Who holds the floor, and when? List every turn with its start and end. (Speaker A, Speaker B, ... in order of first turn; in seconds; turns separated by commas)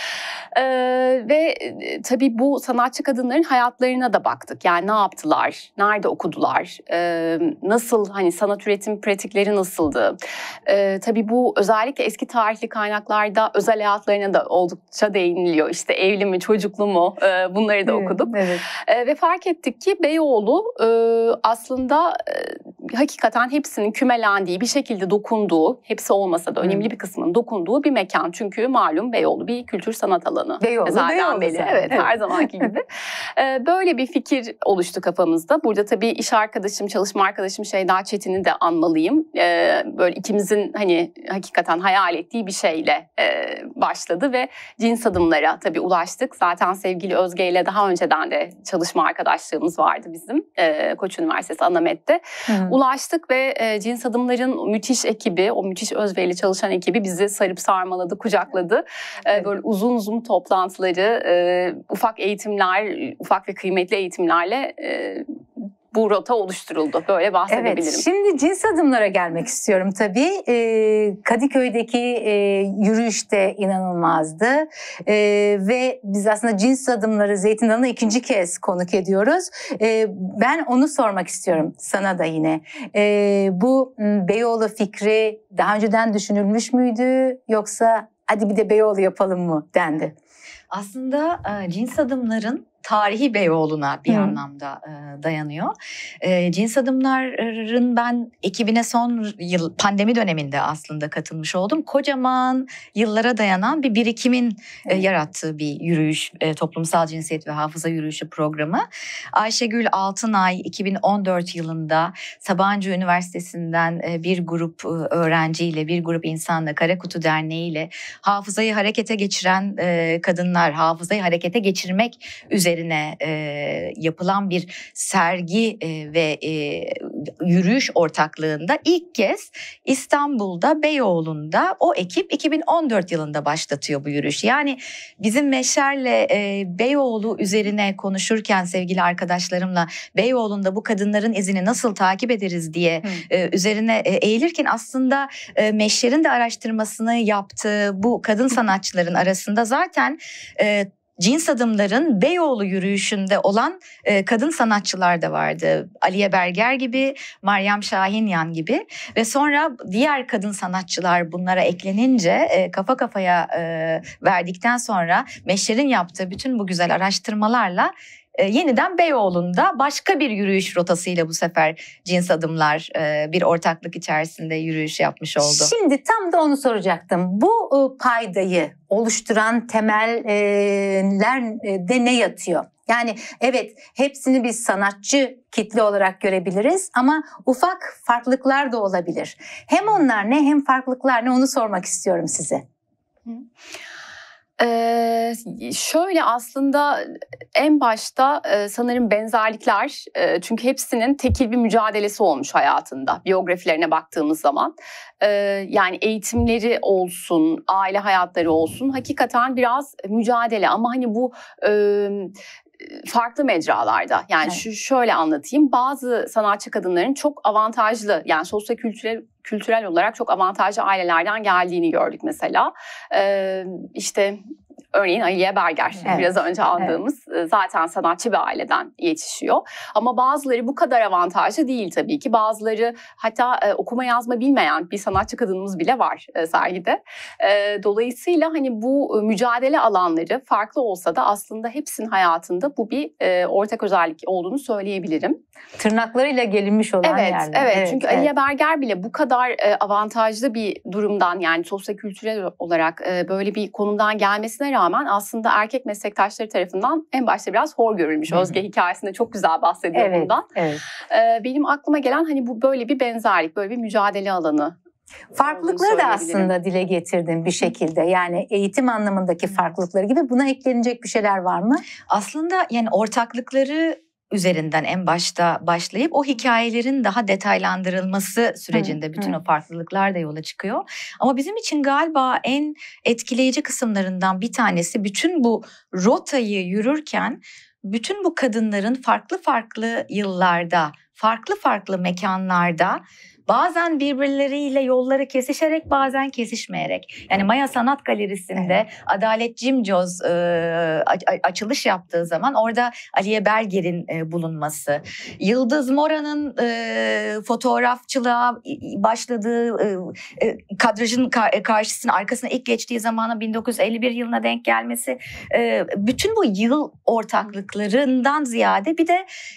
Speaker A: 0.5-68.0, Speaker B: 17.9-18.6, Speaker B: 30.6-32.1, Speaker B: 52.5-52.8, Speaker B: 67.5-90.1, Speaker C: 90.7-175.7, Speaker B: 94.1-94.4, Speaker B: 175.4-192.6, Speaker A: 194.6-224.4, Speaker A: 224.9-245.4, Speaker B: 226.0-226.9, Speaker B: 245.8-248.3, Speaker A: 247.0-260.4, Speaker B: 259.9-260.8, Speaker A: 261.0-264.8, Speaker B: 265.4-271.8, Speaker A: 265.4-266.5, Speaker C: 272.1-319.2, Speaker B: 278.7-279.4